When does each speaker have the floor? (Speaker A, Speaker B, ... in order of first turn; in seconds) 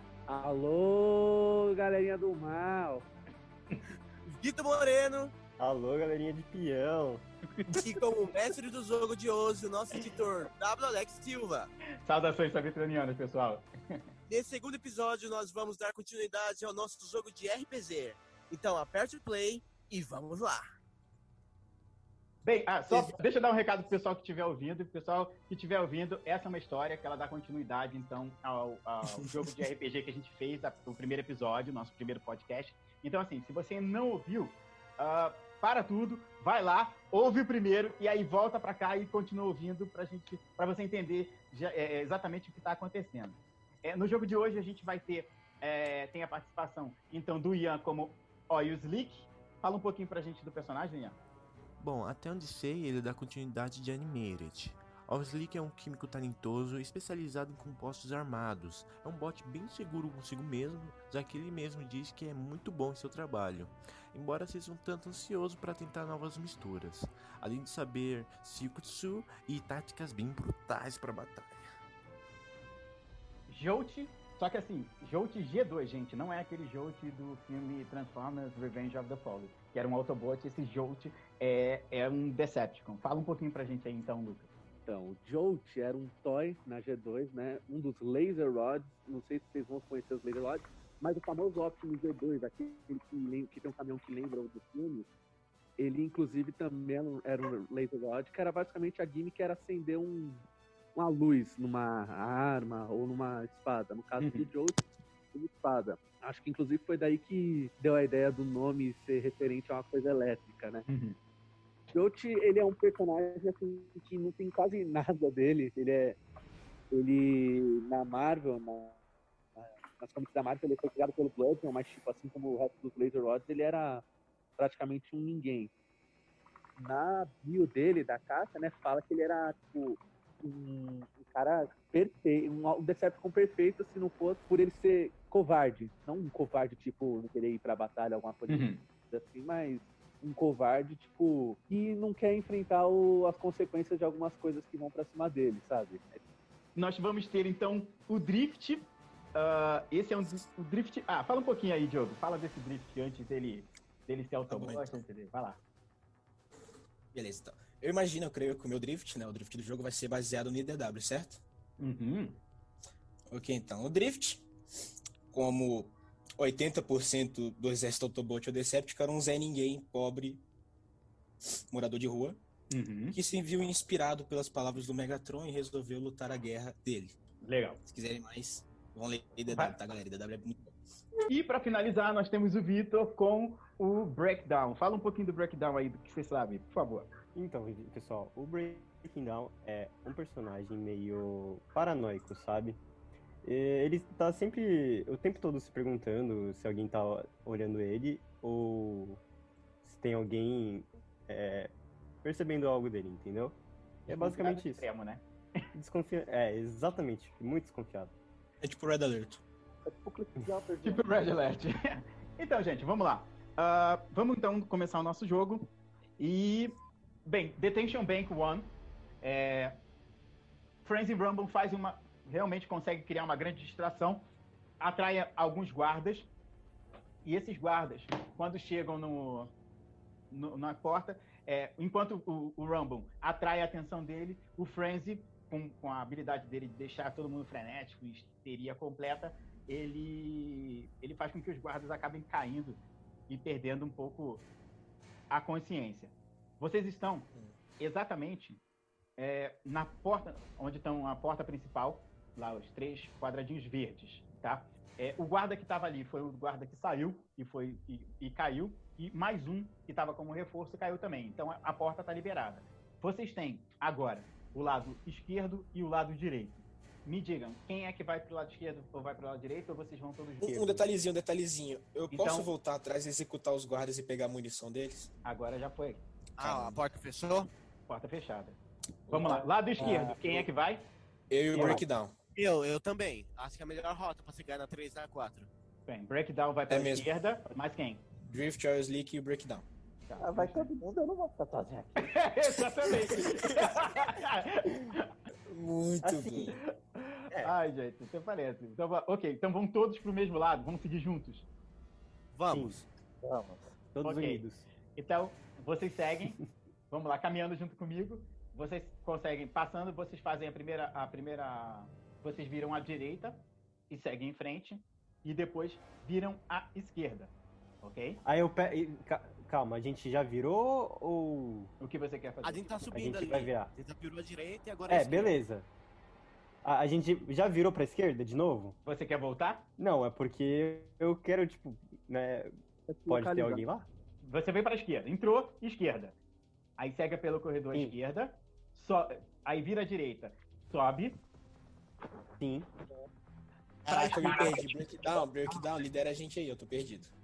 Speaker A: 0.3-3.1, 84.9-95.1, 95.8-100.4, 100.9-104.8, 105.3-110.8, 111.9-116.2, 116.9-119.0, 119.6-124.0, 124.6-125.7, 126.8-146.2, 209.8-211.1, 332.9-333.6
Speaker B: 4.2-5.3, 7.7-11.7, 14.3-20.6, 22.9-23.2, 276.4-277.5, 282.3-285.5, 302.3-302.9, 322.4-325.4, 343.9-344.6
Speaker C: 5.6-7.2, 187.3-192.8, 193.4-199.2, 199.8-201.7, 202.2-204.8, 205.7-208.1, 296.0-296.5, 302.5-302.8, 303.9-304.6, 318.2-321.7, 322.9-323.7, 324.9-325.7, 326.6-328.8, 329.8-332.5, 333.1-333.9, 342.4-342.7
Speaker D: 12.0-14.0, 22.4-51.2, 73.5-84.5, 104.2-104.5, 110.9-111.2, 138.5-138.8, 146.8-155.6, 161.8-162.4, 172.7-173.2, 177.4-177.8, 179.5-179.8, 181.3-187.1, 204.1-205.2, 210.8-216.7, 217.2-219.8, 220.8-224.2, 224.8-226.3, 227.2-229.5, 230.3-244.4, 245.3-248.6, 249.2-270.9, 272.1-272.5, 275.2-276.0, 277.9-278.6, 279.1-280.9, 281.5-281.8, 285.9-288.0, 290.1-290.7, 292.0-295.1, 296.9-301.4, 304.0-304.4, 304.9-318.2, 321.8-322.9, 328.8-329.7, 334.2-336.1, 336.8-341.2, 343.9-344.7
Speaker E: 29.1-29.5, 154.5-155.0, 157.1-161.4, 163.3-164.5, 165.3-170.4, 171.7-172.4, 173.1-177.2, 177.8-180.8, 208.6-209.4, 270.4-275.1, 276.4-276.8, 279.1-279.4, 281.3-282.1, 286.7-287.1, 288.2-289.6, 293.2-293.7, 295.5-296.6, 343.9-347.1
Speaker F: 51.8-71.6
Speaker G: 290.2-292.0, 303.2-303.6